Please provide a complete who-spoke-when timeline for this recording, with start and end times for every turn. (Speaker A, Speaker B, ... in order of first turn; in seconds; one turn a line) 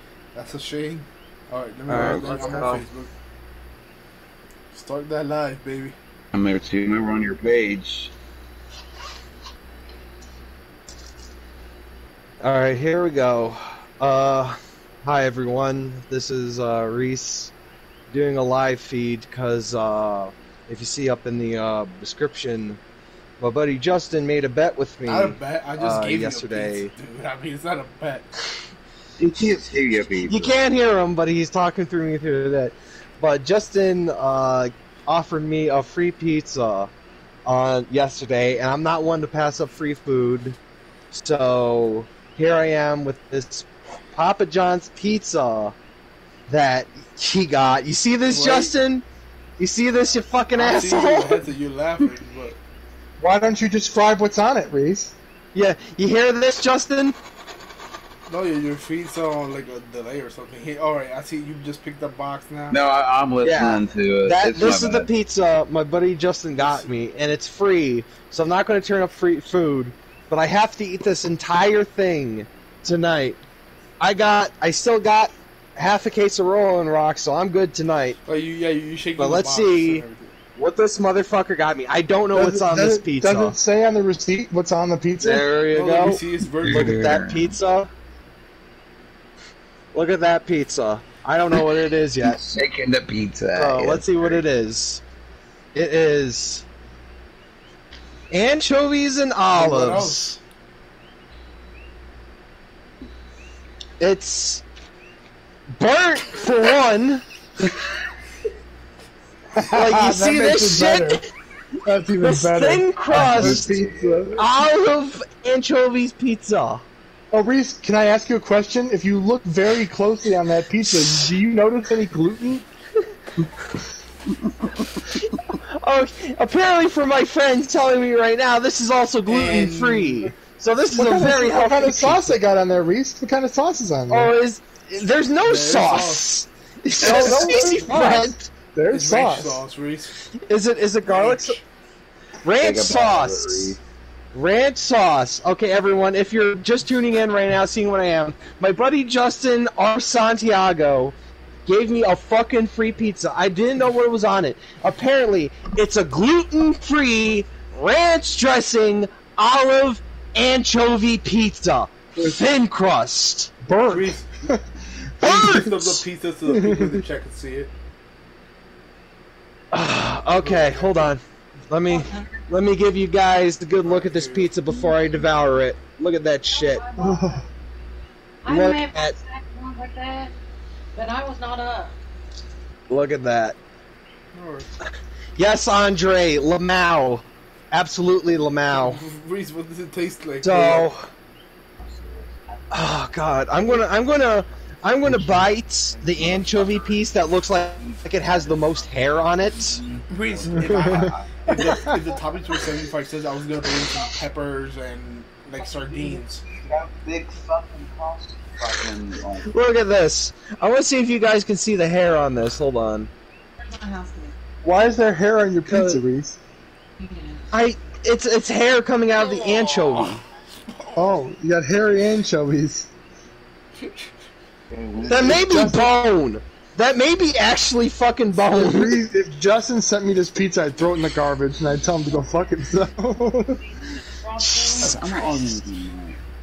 Speaker A: 0.3-3.1
Speaker B: 1.9-2.8
Speaker C: 1.9-2.7
Speaker A: 4.7-6.0
Speaker C: 6.3-8.1
Speaker B: 12.4-17.5
Speaker B: 18.1-22.8
Speaker B: 23.4-26.9
Speaker A: 25.1-28.3
Speaker C: 29.2-30.6
Speaker B: 30.3-36.9
Speaker B: 37.5-40.6
Speaker B: 41.1-45.8
Speaker B: 46.5-49.0
Speaker A: 48.3-48.8
Speaker B: 49.6-51.4
Speaker A: 50.5-52.6
Speaker D: 53.2-55.1
Speaker B: 55.5-57.2
Speaker A: 58.3-62.8
Speaker C: 62.7-65.1
Speaker B: 63.4-73.4
Speaker A: 66.6-66.9
Speaker B: 74.0-78.2
Speaker A: 78.3-80.3
Speaker B: 79.2-80.0
Speaker B: 80.6-83.5
Speaker D: 82.3-85.5
Speaker B: 85.2-87.9
Speaker A: 85.7-87.2
Speaker C: 86.6-87.6
Speaker B: 89.9-92.4
Speaker C: 92.2-94.5
Speaker B: 93.6-95.0
Speaker B: 95.7-96.7
Speaker B: 98.3-100.4
Speaker A: 99.5-100.3
Speaker B: 104.0-104.6
Speaker B: 105.8-107.2
Speaker D: 109.5-111.2
Speaker B: 109.7-111.3
Speaker D: 111.8-114.4
Speaker B: 112.2-113.7
Speaker C: 113.1-114.3
Speaker B: 114.4-116.8
Speaker D: 117.3-122.7
Speaker C: 124.3-125.2
Speaker B: 125.6-132.4
Speaker A: 129.3-130.3
Speaker D: 130.9-134.3
Speaker B: 134.1-138.5
Speaker A: 135.4-136.3
Speaker D: 137.0-139.6
Speaker A: 138.9-140.2
Speaker B: 140.4-141.6
Speaker A: 141.1-141.6
Speaker B: 142.4-143.7
Speaker C: 142.6-143.8
Speaker B: 144.3-151.2
Speaker B: 151.7-163.5
Speaker D: 163.7-164.6
Speaker A: 163.9-164.6
Speaker A: 165.2-167.7
Speaker D: 165.2-165.9
Speaker D: 166.5-167.0
Speaker B: 169.7-176.8
Speaker A: 170.3-171.2
Speaker E: 171.9-172.4
Speaker A: 173.8-174.6
Speaker E: 176.5-177.4
Speaker D: 177.0-177.4
Speaker E: 178.4-180.3
Speaker B: 178.5-179.2
Speaker E: 180.9-181.9
Speaker B: 182.9-183.6
Speaker A: 184.3-184.7
Speaker B: 185.4-189.0
Speaker A: 188.7-190.9
Speaker B: 190.4-191.1
Speaker C: 191.8-192.7
Speaker B: 192.7-199.8
Speaker C: 195.1-197.1
Speaker C: 197.8-202.2
Speaker A: 200.1-206.4
Speaker D: 200.5-201.1
Speaker C: 205.6-209.5
Speaker B: 209.4-213.1
Speaker E: 213.6-214.3
Speaker D: 214.6-216.4
Speaker B: 215.7-216.0
Speaker E: 217.0-217.5
Speaker B: 217.5-220.2
Speaker A: 219.2-220.2
Speaker E: 219.5-219.8
Speaker C: 219.9-220.2
Speaker A: 220.7-221.2
Speaker D: 221.0-222.9
Speaker A: 223.8-224.1
Speaker C: 224.7-225.7
Speaker B: 225.1-229.0
Speaker D: 225.2-226.0
Speaker D: 228.4-233.7
Speaker C: 233.8-236.2
Speaker E: 234.3-235.5